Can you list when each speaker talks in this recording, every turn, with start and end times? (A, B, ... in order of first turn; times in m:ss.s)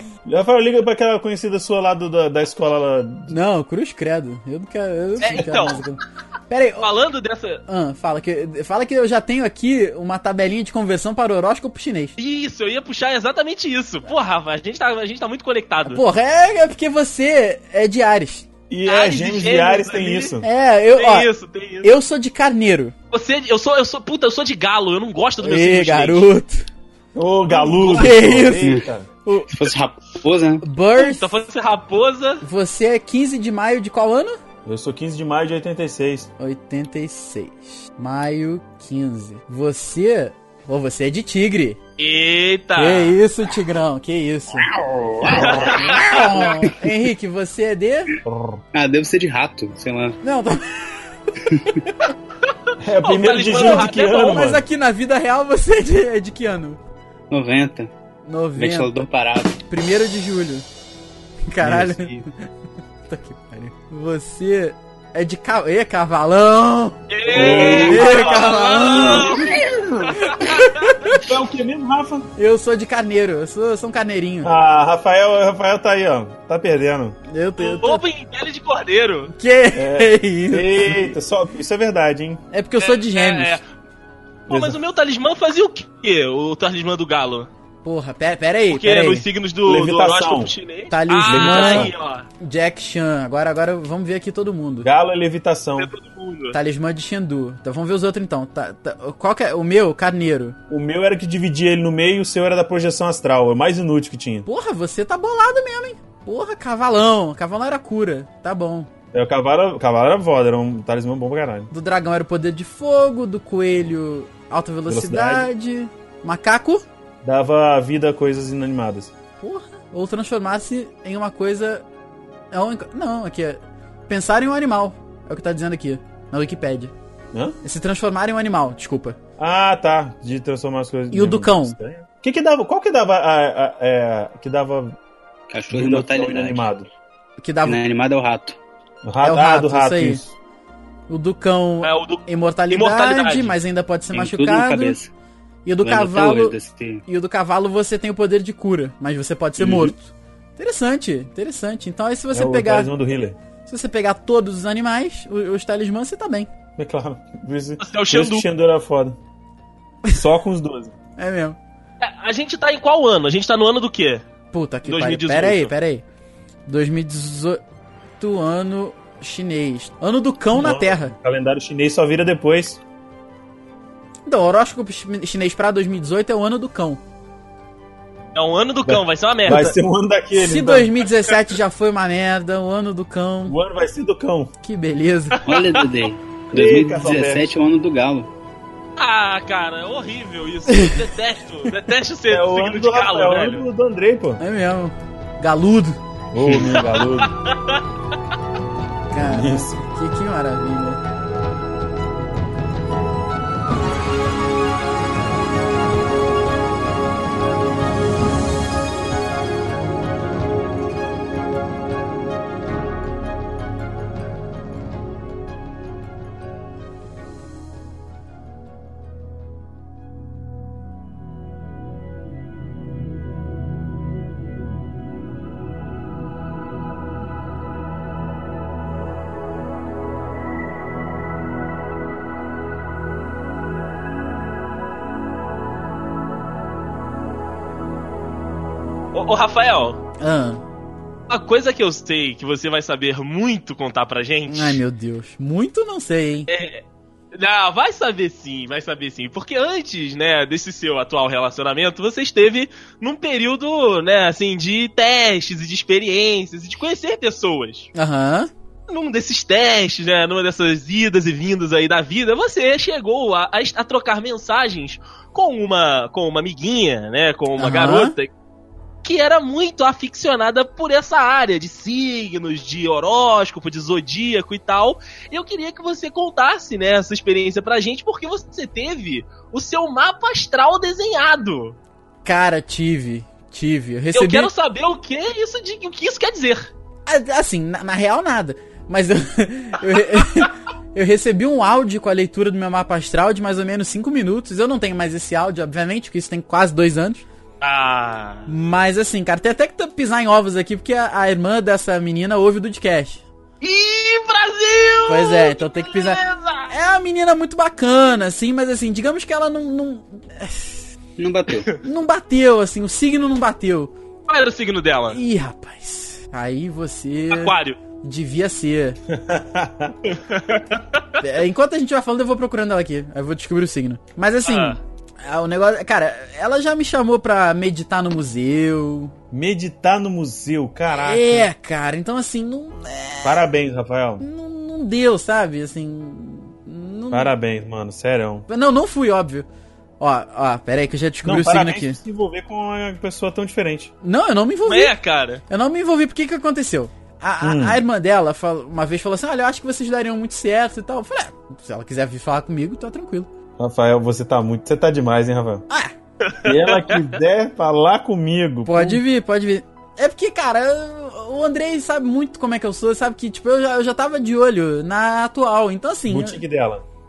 0:00.2-0:03.3 A
0:03.3-0:06.9 B
0:05.2-0:05.8 C
0:05.3-0:05.7 A
0:06.8-0:07.6 C
0:07.7-0:12.2 B
0:12.2-0:16.0 C
0:15.8-0:18.5 B
0:18.7-0:20.5 A
0:18.8-0:20.4 C
0:20.4-0:21.3 B
0:20.9-0:22.0 C
0:21.8-0:22.9 B
0:23.1-0:26.3 C
0:25.4-0:26.7 B
0:27.1-0:29.1 A
0:27.5-0:28.2 C
0:27.9-0:29.6 B
0:28.6-0:28.9 D
0:29.5-0:30.6 D
0:30.6-0:31.3 B
0:31.0-0:32.4 C
0:32.4-0:34.4 B
0:34.6-0:36.3 A
0:36.4-0:41.8 B
0:42.0-0:43.2 C
0:42.8-0:44.7 B
0:44.7-0:46.3 A
0:45.4-0:48.2 B
0:45.4-0:46.4 C
0:48.2-0:48.6 A
0:48.7-0:50.2 D
0:50.2-0:51.1 B
0:51.5-0:51.7 D
0:51.8-0:52.1 B
0:52.8-0:54.6 A
0:53.0-0:54.5 C
0:53.4-0:56.8 B
0:57.3-0:57.9 D
0:58.2-0:59.1 B
0:58.6-0:59.6 D
0:59.7-1:00.6 B
1:01.5-1:02.3 B
1:01.6-1:02.2 D
1:03.1-1:09.5 B
1:07.1-1:11.2 C
1:07.3-1:10.2 A
1:07.3-1:08.0 D
1:10.2-1:11.2 B
1:11.1-1:12.3 A
1:12.4-1:14.5 B
1:14.4-1:17.2 A
1:17.3-1:18.0 B
1:17.6-1:19.3 C
1:19.3-1:21.2 B
1:19.7-1:22.4 A
1:22.5-1:23.6 B
1:22.8-1:23.6 C
1:24.5-1:27.5 C
1:24.5-1:24.8 A
1:27.8-1:29.2 B
1:28.7-1:32.3 C
1:29.6-1:30.5 A
1:30.9-1:34.9 B
1:31.3-1:31.9 A
1:34.8-1:35.9 A
1:35.8-1:36.6 C
1:36.5-1:40.6 B
1:40.7-1:44.5 A
1:44.4-1:48.9 B
1:49.1-1:51.7 A
1:51.7-1:56.8 B
1:54.9-1:55.5 A
1:57.2-1:59.1 A
1:59.4-2:01.8 B
2:02.5-2:06.9 B
2:07.3-2:07.6 A
2:07.6-2:09.2 B
2:09.4-2:15.0 A
2:11.1-2:11.8 B
2:15.5-2:16.7 D
2:15.7-2:16.9 A
2:17.4-2:17.8 B
2:17.6-2:18.6 D
2:19.0-2:20.3 A
2:19.2-2:20.2 B
2:21.1-2:25.0 B
2:21.8-2:23.6 C
2:24.1-2:25.1 D
2:25.6-2:32.9 B
2:25.8-2:27.0 D
2:29.6-2:29.9 A
2:32.3-2:33.4 A
2:33.6-2:36.5 B
2:36.8-2:39.2 A
2:37.8-2:38.4 C
2:40.1-2:40.9 A
2:41.2-2:41.6 B
2:42.0-2:44.2 C
2:44.5-2:46.0 B
2:44.8-2:45.7 C
2:46.6-2:47.6 B
2:48.2-2:51.1 B
2:50.5-2:52.8 A
2:54.3-2:57.0 B
2:58.3-2:59.7 C
2:58.8-3:00.9 A
2:59.5-2:59.7 B
3:00.3-3:03.6 B
3:03.4-3:04.5 A
3:04.6-3:05.4 B
3:05.4-3:08.3 D
3:06.5-3:07.5 A
3:09.0-3:13.6 C
3:10.7-3:11.0 B
3:12.3-3:14.4 A
3:14.4-3:16.0 B
3:16.3-3:17.3 A
3:16.4-3:17.8 C
3:19.1-3:21.0 B
3:19.2-3:19.8 A
3:59.1-4:00.0 C
4:00.2-4:00.6 B
4:01.3-4:04.8 C
4:04.5-4:06.5 B
4:06.5-4:17.9 C
4:17.9-4:18.5 B
4:18.9-4:28.3 C
4:27.6-4:28.1 B
4:29.0-4:41.8 C
4:42.2-4:44.5 B
4:44.1-4:46.7 C
4:47.0-4:57.2 B
4:57.6-4:58.5 C
4:58.5-5:03.2 B
5:03.6-5:06.7 C
5:05.1-5:10.9 B
5:11.2-5:11.7 D
5:11.8-5:13.9 B
5:14.3-5:15.2 C
5:15.1-5:19.0 B
5:17.3-5:17.8 C
5:19.1-5:20.0 A
5:20.1-5:21.2 C
5:21.2-5:29.1 B
5:24.4-5:24.8 C
5:29.3-5:31.5 A
5:30.9-5:33.5 B
5:33.2-5:34.2 A
5:34.2-5:37.3 B
5:37.1-5:38.5 A
5:38.5-5:39.5 B
5:40.0-5:42.0 B
5:41.2-5:43.9 A
5:44.0-5:44.9 B
5:44.6-5:45.4 C
5:45.5-5:53.3 B
5:47.4-5:47.8 A
5:53.6-5:55.6 A
5:56.2-5:57.0 C
5:56.4-5:59.0 A
5:58.6-6:06.4 B
6:06.1-6:06.8 A